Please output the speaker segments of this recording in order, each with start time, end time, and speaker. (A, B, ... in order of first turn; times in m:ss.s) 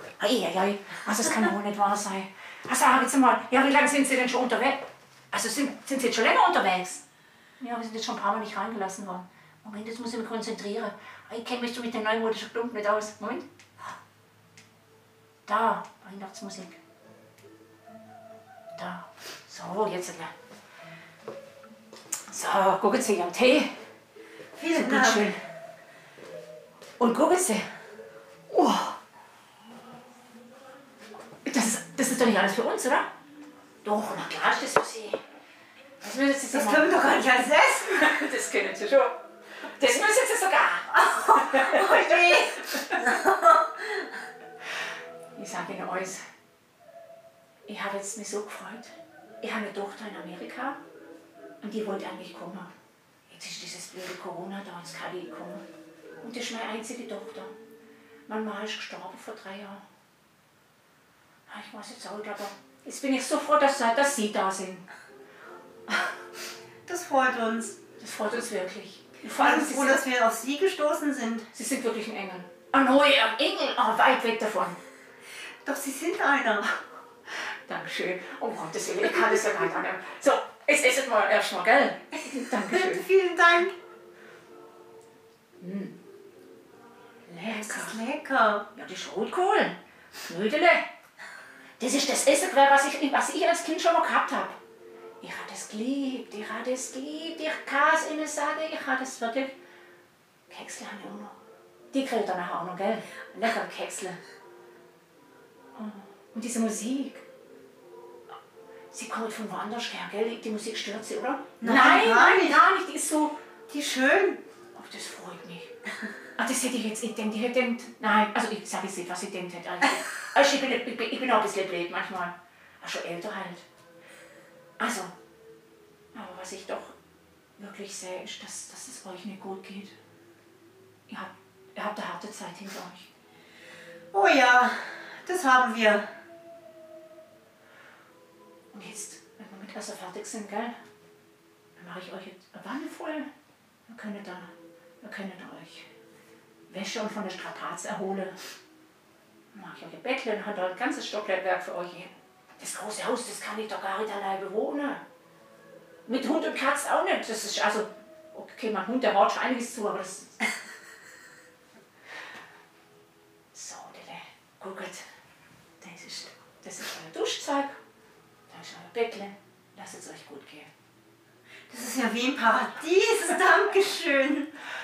0:00.2-0:07.0 A
0:07.6-0:13.9 A
0:15.4-0:16.8 A
0:18.8-0:20.3 A
0:22.3-0:23.7 A
0:24.6-0:25.3 B
0:24.7-0:25.4 A
0:27.0-0:27.7 A
0:28.5-0:28.9 B
0:31.4-0:33.1 A
0:33.8-0:35.2 A
0:36.0-0:36.9 A
0:36.5-0:38.1 B
0:37.9-0:39.1 A
0:39.7-0:43.1 A
0:40.9-0:44.1 B
0:45.4-0:46.2 A
0:47.6-0:50.8 A
0:51.6-0:52.7 A
0:53.3-0:55.6 A
0:56.2-0:57.5 A
0:58.3-0:59.8 A
1:01.5-1:04.8 A
1:06.9-1:07.8 B
1:08.0-1:10.0 A
1:09.3-1:11.5 B
1:11.5-1:14.8 A
1:15.6-1:16.8 B
1:17.7-1:23.1 A
1:22.3-1:23.7 B
1:25.6-1:26.0 A
1:27.2-1:28.0 A
1:27.5-1:28.7 B
1:28.7-1:30.9 A
1:31.8-1:34.6 A
1:35.2-1:39.5 A
1:40.5-1:41.4 A
1:41.9-1:44.2 A
1:45.7-1:47.2 A
1:48.9-1:53.3 A
1:51.6-1:52.7 B
1:53.7-1:54.4 B
1:54.7-1:55.7 A
1:56.4-2:03.6 A
2:04.8-2:05.1 A
2:06.1-2:06.9 A
2:07.6-2:09.9 A
2:11.1-2:13.1 A
2:14.1-2:16.0 B
2:18.7-2:20.8 A
2:21.8-2:23.3 A
2:23.9-2:25.9 A
2:26.7-2:28.4 A
2:29.5-2:35.0 A
2:36.0-2:40.4 A
2:43.5-2:45.0 A
2:45.8-2:47.8 A
2:48.5-2:50.7 A
2:51.7-2:54.5 B